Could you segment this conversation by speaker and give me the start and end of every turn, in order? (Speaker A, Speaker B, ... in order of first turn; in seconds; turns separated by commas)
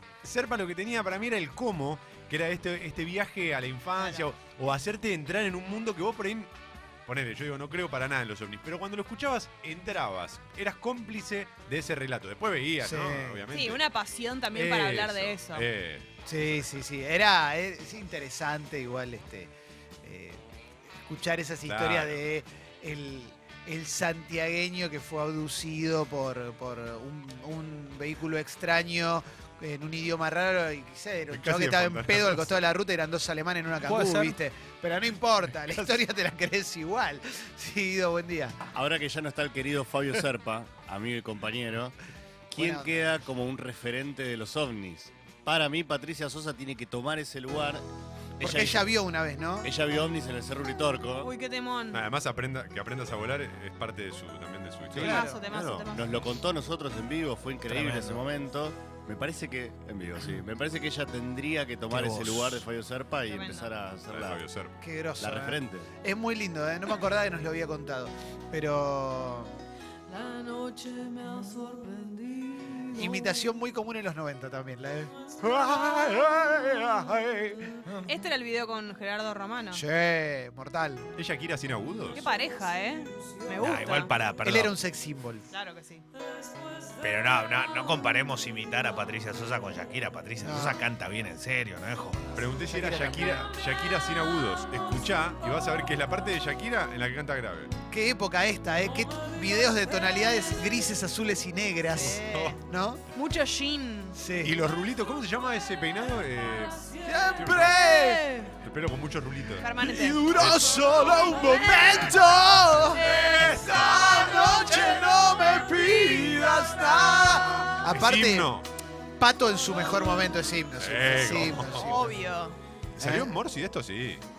Speaker A: 0.2-6.5, Speaker A: 7.1-13.8, Speaker B: 12.8-13.5, Speaker C: 13.5-15.7, Speaker A: 14.5-16.6, Speaker B: 16.3-19.5, Speaker B: 20.0-38.6, Speaker A: 21.7-22.2, Speaker A: 31.3-32.5, Speaker D: 33.9-34.4, Speaker A: 35.7-36.0, Speaker E: 38.7-42.0, Speaker E: 42.5-47.8, Speaker B: 42.6-43.1, Speaker E: 48.4-48.8, Speaker B: 48.4-49.7, Speaker E: 49.6-51.3, Speaker C: 51.2-52.0, Speaker A: 51.9-55.5, Speaker B: 54.9-55.4, Speaker E: 54.9-64.5, Speaker C: 55.0-56.3, Speaker D: 57.7-58.3, Speaker D: 61.9-62.6, Speaker C: 63.3-63.7, Speaker A: 64.1-64.8, Speaker B: 64.8-69.5, Speaker E: 65.2-65.9, Speaker B: 72.9-77.8, Speaker C: 78.1-79.8, Speaker B: 79.7-81.1, Speaker A: 81.2-82.2, Speaker C: 82.1-84.1, Speaker D: 83.6-84.7, Speaker B: 84.4-85.5, Speaker C: 85.5-86.0, Speaker D: 87.0-92.6, Speaker B: 90.4-90.8, Speaker A: 92.4-97.7, Speaker B: 92.7-93.5, Speaker B: 97.9-103.0, Speaker C: 101.9-102.6, Speaker A: 102.0-102.6, Speaker C: 103.1-104.2, Speaker B: 104.2-104.6, Speaker A: 104.4-107.8, Speaker B: 107.1-108.3, Speaker A: 108.6-111.9, Speaker C: 109.6-110.2, Speaker B: 110.1-118.5, Speaker A: 113.0-114.1, Speaker A: 115.9-116.7, Speaker A: 117.6-118.7, Speaker B: 119.2-122.1, Speaker A: 120.8-122.0, Speaker C: 121.7-122.6, Speaker A: 123.0-124.2, Speaker B: 123.0-123.4